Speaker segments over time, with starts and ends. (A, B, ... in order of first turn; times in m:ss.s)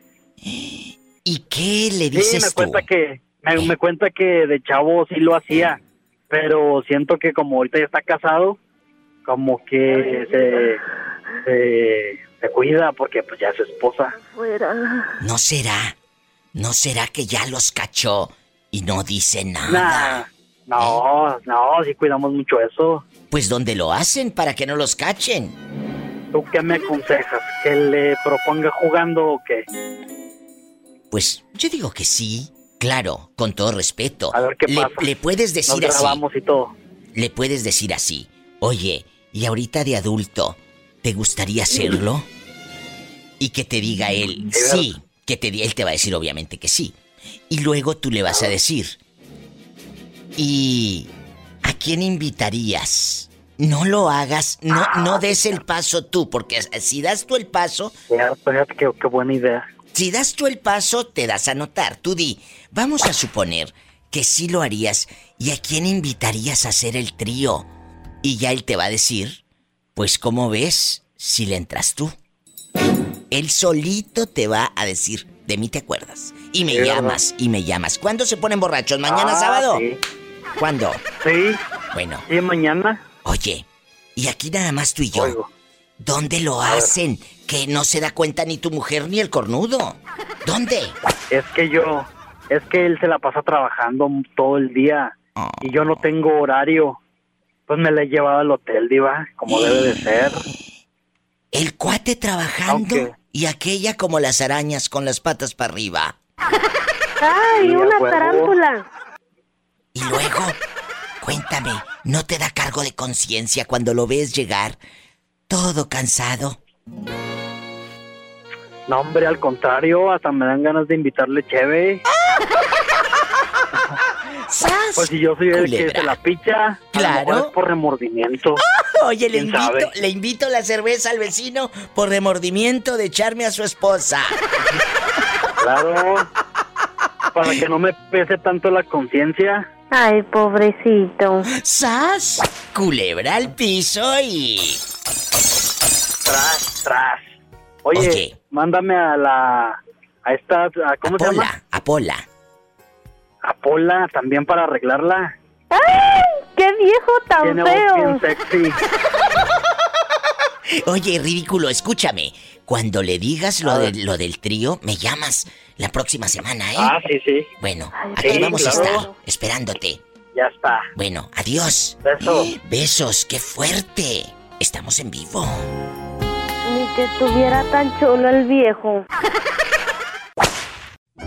0:00.4-0:02.8 A
0:02.1-0:08.6 B
0:09.2-0:10.8 B
0:10.0-0:10.7 C
0:11.4-0:14.2 B
0:14.2-0:15.2 C
0:15.2-0:16.0 A
0:16.5-0:20.2 A
0:19.7-0:23.0 B
0:20.8-0:21.0 A
0:23.3-0:25.6 A
0:26.3-0:29.6 B
0:31.1-0:36.2 A
0:34.3-0:35.1 B
0:35.7-0:36.7 B
0:37.1-0:42.3 A
0:43.4-0:47.0 A
0:44.5-0:44.9 B
0:47.5-0:49.0 A
0:50.4-0:51.1 A
0:51.6-0:57.9 A
0:58.1-0:59.7 B
0:59.9-1:07.7 A
1:08.2-1:09.4 A
1:10.0-1:12.1 A
1:13.3-1:19.8 A
1:16.7-1:17.2 B
1:19.0-1:20.0 B
1:20.6-1:21.0 A
1:21.2-1:21.6 B
1:21.9-1:22.2 A
1:22.3-1:23.0 B
1:23.2-1:25.4 A
1:25.1-1:25.5 B
1:26.0-1:31.0 A
1:26.6-1:26.9 B
1:31.3-1:37.0 B
1:35.4-1:36.0 A
1:37.7-1:40.4 B
1:39.5-1:39.9 A
1:41.5-1:46.2 A
1:42.7-1:43.1 B
1:47.2-1:48.8 C
1:47.5-1:48.5 B
1:49.9-1:50.6 A
1:51.2-1:54.8 A
1:55.5-1:56.6 A
1:58.9-2:02.0 B
2:04.5-2:06.2 A
2:05.0-2:08.6 B
2:06.9-2:07.5 A
2:08.6-2:14.4 A
2:09.3-2:09.9 B
2:15.6-2:16.3 B
2:17.3-2:19.7 B
2:19.9-2:21.5 C
2:21.5-2:24.8 A
2:26.2-2:31.5 B
2:27.9-2:28.3 A
2:31.0-2:32.2 A
2:33.4-2:35.3 B
2:35.7-2:38.2 C
2:37.4-2:38.8 B
2:40.7-2:46.9 A
2:43.6-2:43.9 B
2:46.8-2:47.5 B
2:47.6-2:50.0 A
2:47.9-2:49.1 C
2:48.2-2:49.0 B
2:50.3-2:50.9 B
2:51.0-2:55.7 A
2:52.0-2:52.5 B
2:56.6-2:59.0 C